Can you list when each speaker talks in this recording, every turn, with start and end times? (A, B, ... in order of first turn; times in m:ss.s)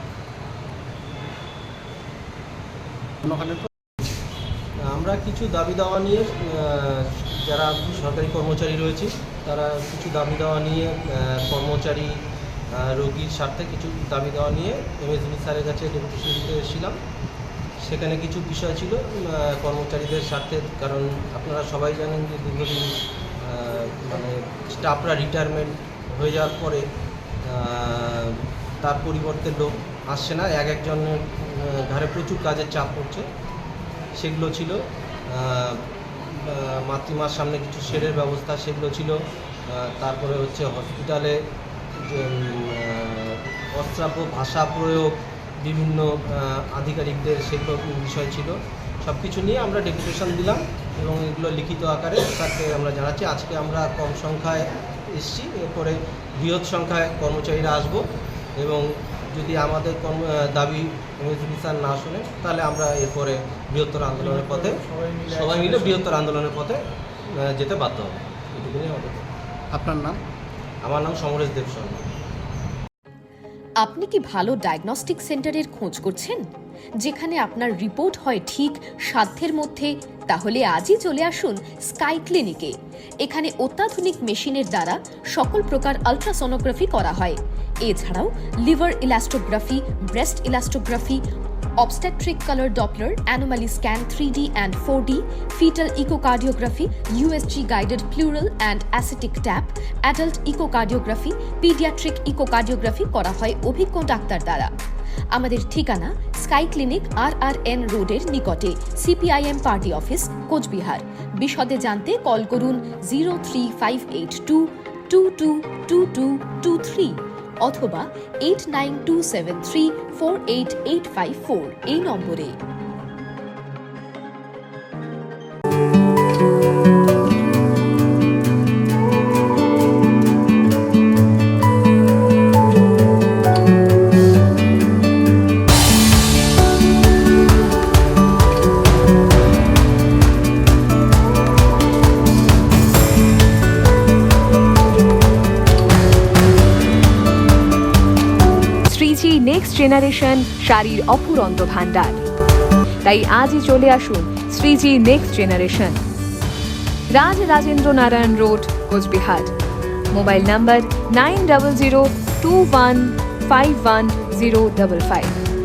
0:03.2-0:03.7 A
0:04.9-0:12.2 B
0:12.7-0:17.0 B
0:17.8-0:26.8 B
0:27.4-0:33.2 B
0:34.2-0:39.2 B
0:39.7-0:41.4 B
0:42.0-0:58.0 B
0:58.6-1:06.8 B
1:04.3-1:06.0 A
1:07.4-1:09.2 B
1:09.7-1:10.2 A
1:10.8-1:12.0 B
1:13.8-1:16.4 C
1:17.0-1:31.2 C
1:31.8-1:44.7 C
1:45.3-2:02.6 C
2:28.8-2:32.2 D
2:33.0-2:36.0 D
2:37.1-2:39.5 D
2:40.1-2:45.4 D